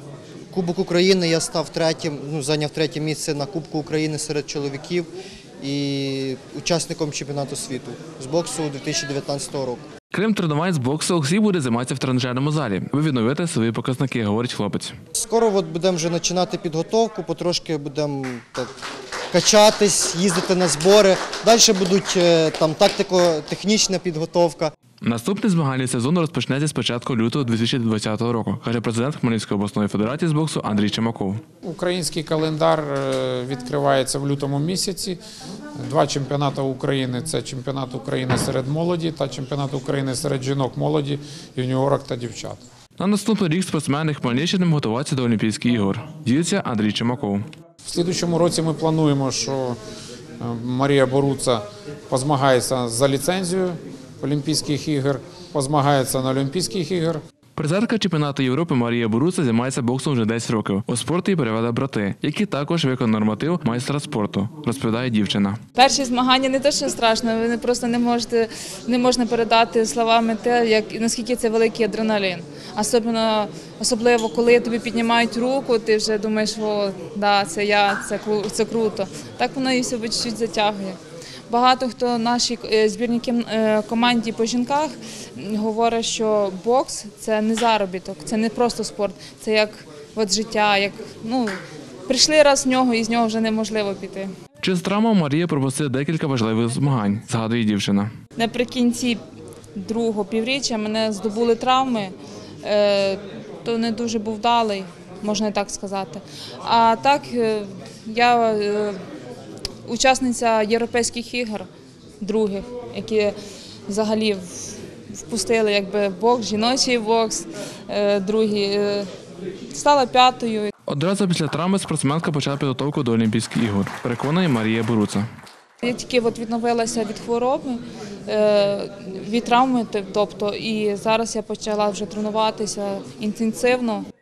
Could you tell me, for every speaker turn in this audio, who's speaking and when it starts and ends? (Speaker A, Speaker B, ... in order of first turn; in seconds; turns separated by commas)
Speaker A: 0.5-5.1, Speaker A: 5.6-9.8, Speaker B: 10.1-14.9, Speaker A: 15.2-18.7, Speaker A: 19.3-24.7, Speaker B: 25.0-31.4, Speaker C: 31.6-35.2, Speaker C: 35.8-42.6, Speaker B: 43.0-47.5, Speaker C: 47.9-49.8, Speaker C: 50.4-57.2, Speaker B: 57.6-65.6, Speaker D: 65.8-81.0, Speaker D: 81.5-94.3, Speaker B: 94.6-98.1, Speaker D: 98.4-99.2, Speaker D: 99.7-109.0, Speaker D: 109.8-111.7, Speaker D: 112.2-119.1, Speaker D: 119.7-120.7, Speaker B: 120.9-125.3, Speaker D: 125.8-134.1